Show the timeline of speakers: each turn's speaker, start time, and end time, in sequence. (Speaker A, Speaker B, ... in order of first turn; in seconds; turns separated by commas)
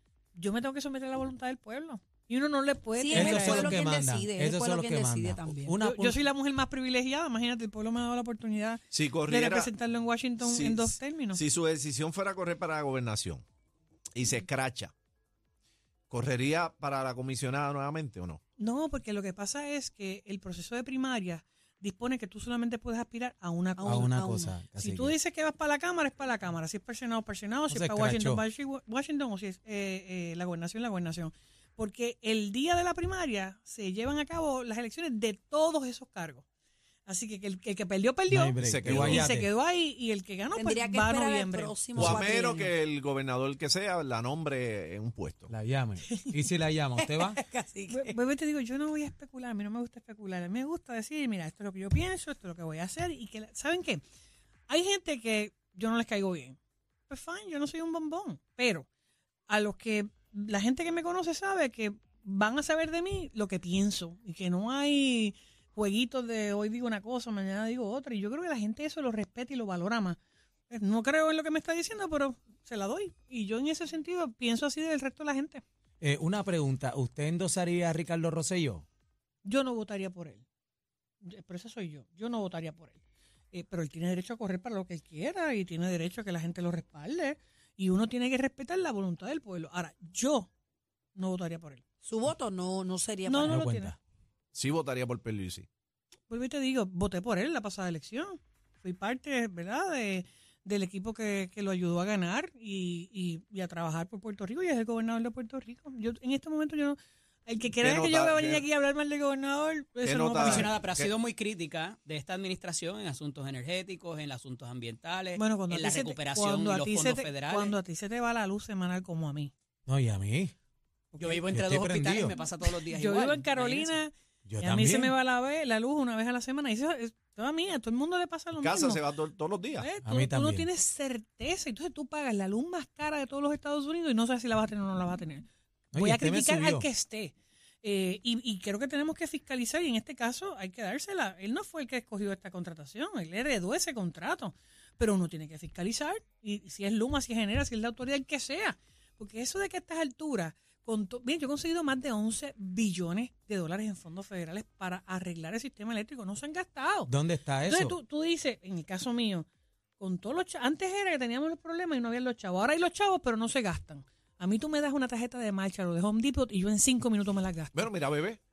Speaker A: 0.3-3.9, Speaker B: 3.0-5.8, Speaker C: 3.1-6.2, Speaker A: 5.8-11.4, Speaker D: 8.9-9.7, Speaker D: 10.4-13.4, Speaker D: 14.2-14.9, Speaker D: 16.1-18.4, Speaker A: 18.6-24.2, Speaker B: 23.8-24.6, Speaker C: 23.9-25.2, Speaker A: 24.8-36.5, Speaker C: 27.7-28.4, Speaker A: 37.1-41.8, Speaker C: 38.3-39.5, Speaker D: 38.6-39.3, Speaker B: 40.5-42.8, Speaker D: 42.0-45.5, Speaker C: 42.0-42.2, Speaker C: 45.5-47.4, Speaker B: 47.0-48.2, Speaker A: 47.9-54.0, Speaker A: 54.7-56.6, Speaker A: 57.1-58.9, Speaker A: 59.5-75.6, Speaker C: 76.0-78.9, Speaker A: 79.5-80.4, Speaker A: 81.2-83.0, Speaker A: 83.5-90.5, Speaker A: 91.2-91.8, Speaker B: 92.0-93.6, Speaker A: 93.3-94.0, Speaker C: 93.4-94.0, Speaker D: 94.5-95.7, Speaker A: 96.3-110.7, Speaker D: 107.8-108.7, Speaker D: 110.0-111.1, Speaker E: 110.4-117.8, Speaker A: 115.4-119.5, Speaker C: 119.9-120.5, Speaker A: 121.1-121.4, Speaker E: 121.2-124.0, Speaker C: 121.5-122.4, Speaker A: 122.2-129.0, Speaker C: 124.5-125.2, Speaker D: 128.6-129.9, Speaker A: 129.8-157.1, Speaker C: 130.0-130.7, Speaker C: 135.9-136.9, Speaker C: 157.1-158.0, Speaker A: 157.7-159.5, Speaker A: 160.0-167.9, Speaker D: 167.7-168.4